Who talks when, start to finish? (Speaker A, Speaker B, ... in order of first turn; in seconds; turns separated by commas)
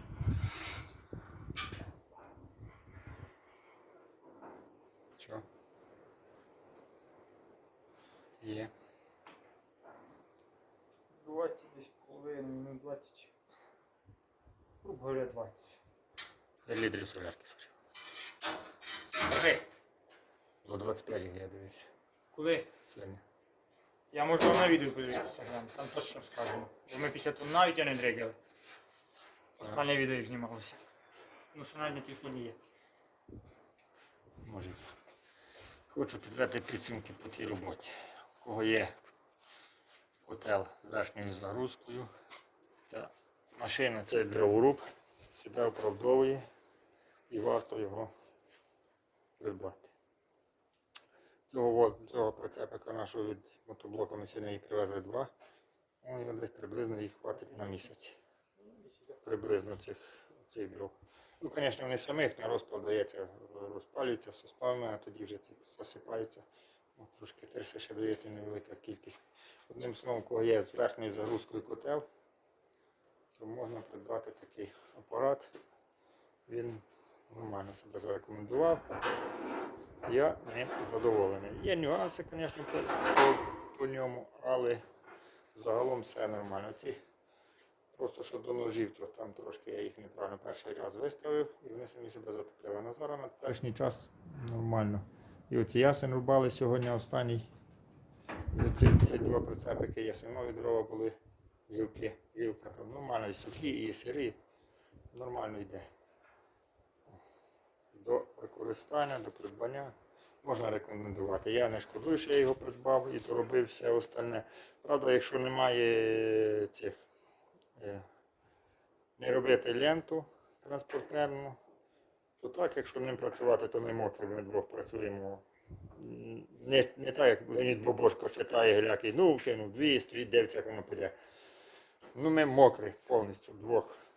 Speaker A: 5.2-5.5, Speaker A: 8.4-8.7, Speaker B: 11.2-13.3, Speaker B: 14.8-15.8, Speaker A: 16.7-17.7, Speaker A: 20.6-21.9, Speaker B: 22.3-22.7, Speaker A: 22.7-23.2, Speaker B: 24.1-28.4, Speaker A: 29.6-29.9, Speaker B: 29.6-30.8, Speaker B: 31.5-32.6, Speaker A: 34.4-34.8, Speaker A: 35.9-39.0, Speaker A: 40.2-42.1, Speaker A: 42.9-46.4, Speaker A: 47.3-48.1, Speaker A: 49.4-49.9, Speaker A: 51.5-55.3, Speaker A: 56.0-58.2, Speaker A: 59.2-72.1, Speaker A: 73.3-75.5, Speaker A: 76.5-78.9, Speaker A: 80.0-84.8, Speaker A: 85.5-87.0, Speaker A: 87.9-97.5, Speaker A: 98.5-101.2, Speaker A: 101.7-104.4, Speaker A: 105.1-105.9, Speaker A: 107.9-117.0, Speaker A: 117.8-118.1, Speaker A: 119.2-121.6, Speaker A: 122.4-131.2, Speaker A: 132.2-134.0